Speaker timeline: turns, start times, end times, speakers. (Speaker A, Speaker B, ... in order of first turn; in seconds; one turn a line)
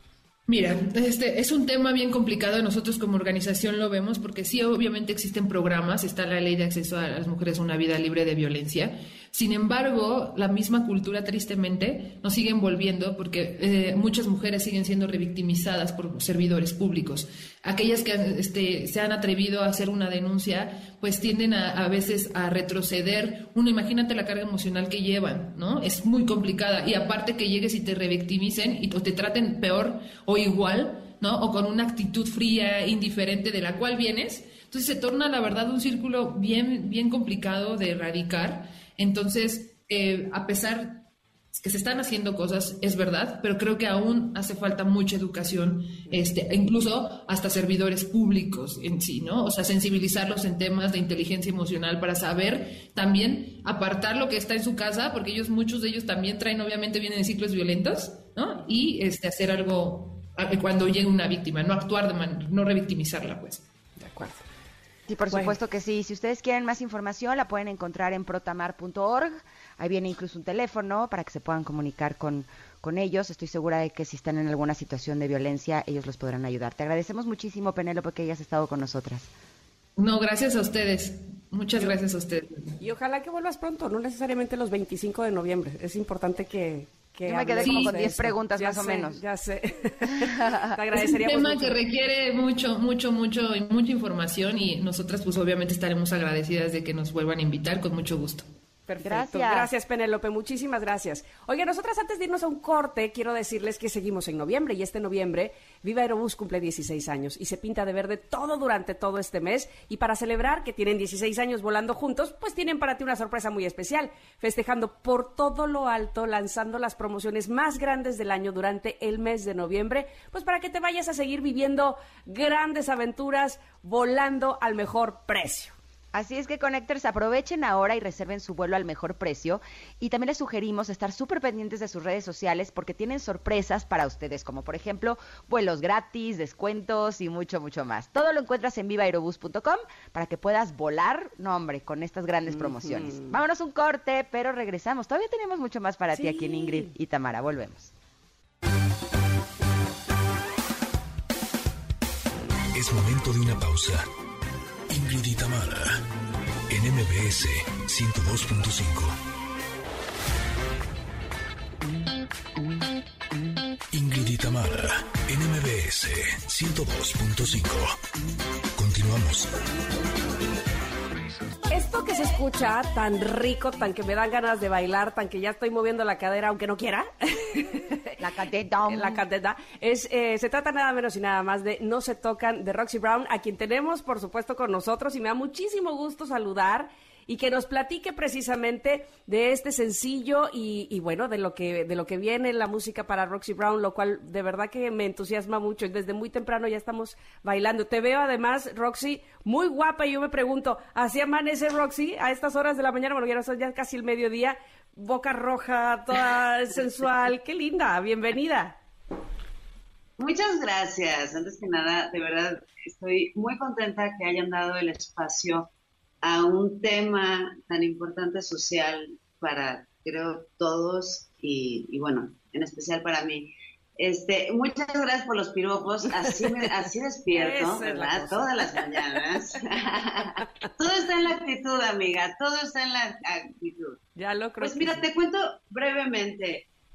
Speaker A: 0.5-63.6
Speaker B: 64.0-64.4
Speaker C: 65.1-79.3
Speaker B: 65.3-65.5
Speaker A: 80.0-82.7
Speaker B: 82.8-91.8
Speaker C: 87.2-89.2
Speaker A: 87.7-87.9
Speaker C: 90.2-90.7
Speaker A: 90.9-98.5
Speaker B: 98.9-125.7
Speaker C: 99.0-99.7
Speaker C: 126.1-147.9
Speaker B: 142.6-143.3
Speaker B: 146.1-146.9
Speaker D: 152.7-154.1
Speaker D: 154.9-156.0
Speaker D: 156.7-159.2
Speaker D: 163.9-168.0
Speaker D: 168.8-169.5
Speaker B: 171.7-178.2
Speaker C: 178.2-179.2
Speaker B: 178.9-208.8
Speaker E: 210.2-215.7
Speaker E: 216.2-234.0
Speaker B: 226.2-226.7
Speaker B: 227.3-229.2
Speaker B: 234.2-235.1
Speaker E: 234.6-236.7